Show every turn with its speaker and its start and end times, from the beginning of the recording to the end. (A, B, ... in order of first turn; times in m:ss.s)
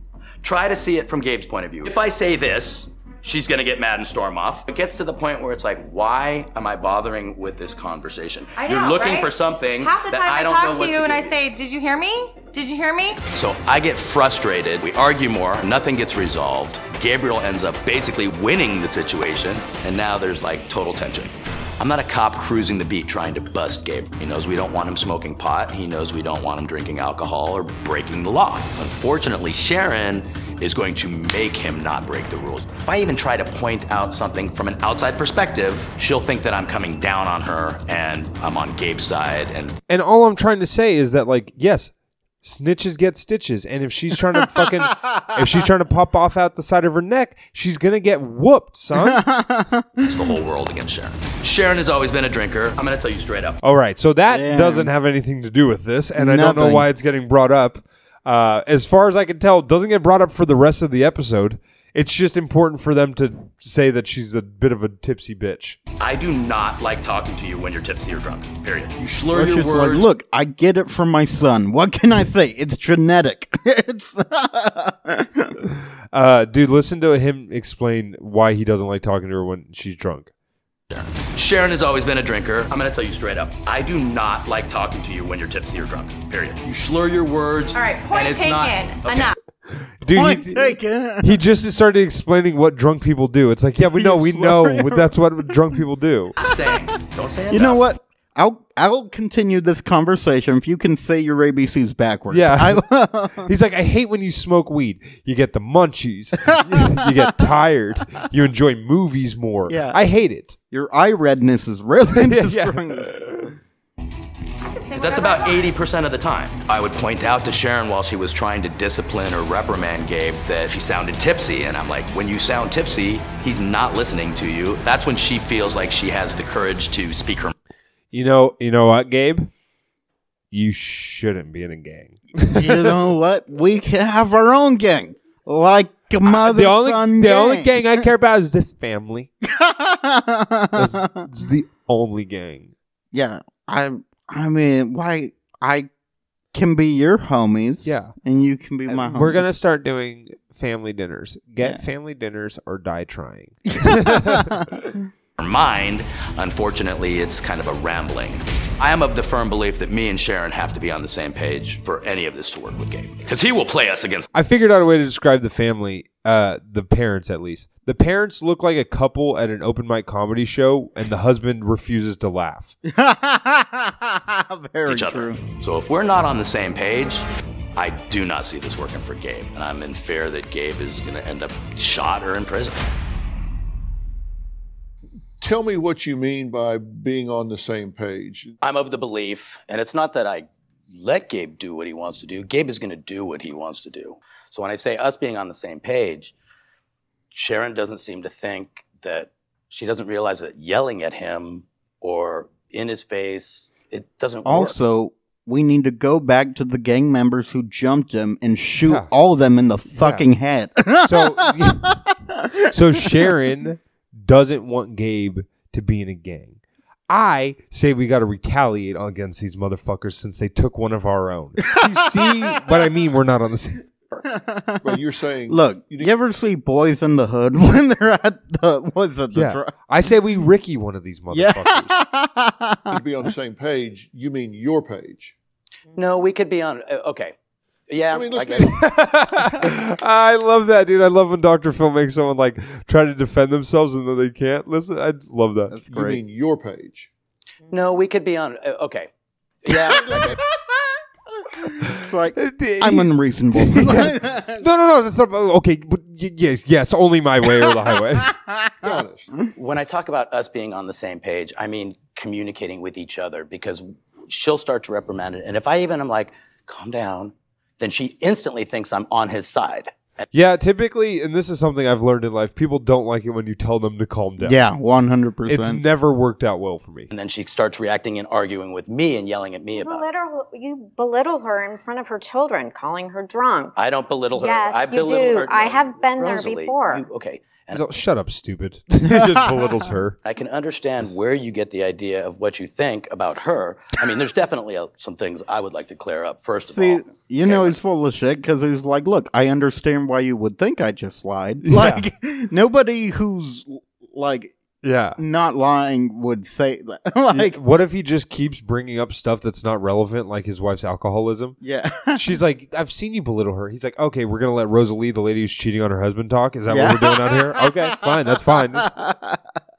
0:00.4-0:11.4 A
0:08.6-0:09.3 B
0:09.8-0:13.2 B
0:13.3-0:39.8 A
0:39.9-0:49.2 C
0:44.6-0:45.3 D
0:49.0-0:50.1 D
0:50.0-0:53.6 A
0:53.6-1:05.8 C
0:54.3-0:54.9 D
0:56.2-0:56.9 D
1:06.0-1:10.1 A
1:09.3-1:15.6 D
1:16.1-1:20.3 C
1:20.9-1:29.3 A
1:27.7-1:29.3 B
1:29.7-1:36.4 C
1:30.1-1:31.3 D
1:33.9-1:35.5 D
1:36.4-1:37.8 A
1:37.5-1:43.5 D
1:42.3-1:42.9 C
1:43.4-1:50.6 C
1:46.5-1:47.2 D
1:49.7-1:50.0 D
1:50.7-1:53.3 D
1:52.1-1:53.5 C
1:54.9-1:55.6 B
1:54.9-2:07.5 A
2:08.1-2:09.5 C
2:10.5-2:13.0 C
2:12.5-2:18.0 D
2:16.2-2:19.3 C
2:19.4-2:21.2 D
2:20.7-2:22.7 C
2:23.1-2:25.9 D
2:26.5-2:29.5 D
2:27.8-2:28.1 C
2:28.9-2:34.8 C
2:33.7-2:34.7 D
2:35.4-2:44.3 A
2:44.3-2:52.7 C
2:52.8-2:55.4 D
2:54.8-3:02.8 A
3:05.4-3:08.5 E
3:08.6-3:16.3 A
3:17.3-3:24.8 A
3:24.4-3:32.7 D
3:28.8-3:29.1 C
3:29.9-3:30.3 C
3:31.0-3:31.9 C
3:32.7-3:43.8 C
3:41.7-3:42.3 D
3:44.3-3:44.8 D
3:44.8-3:46.1 E
3:45.5-3:49.7 D
3:49.3-3:52.0 C
3:51.3-3:53.0 D
3:52.9-3:55.3 E
3:55.9-3:57.3 A
3:57.9-3:58.7 A
3:58.1-3:58.8 E
3:58.6-4:05.8 C
4:05.7-4:06.2 D
4:05.9-4:07.1 E
4:07.7-4:09.1 A
4:09.6-4:10.4 A
4:09.9-4:10.3 E
4:11.5-4:14.6 D
4:11.8-4:18.3 C
4:18.5-4:18.9 D
4:18.8-4:19.3 E
4:19.5-4:29.9 A
4:30.3-4:34.6 C
4:34.4-4:35.8 D
4:35.5-4:37.1 C
4:37.1-4:40.1 A
4:39.8-4:43.7 F
4:43.8-4:47.8 A
4:44.4-4:47.1 F
4:47.7-4:50.2 C
4:50.2-4:57.8 A
4:56.7-5:04.5 D
5:01.6-5:02.1 C
5:04.8-5:05.2 C
5:05.2-5:07.6 D
5:07.3-5:11.6 C
5:11.6-5:12.2 D
5:12.1-5:18.9 C
5:16.7-5:19.4 D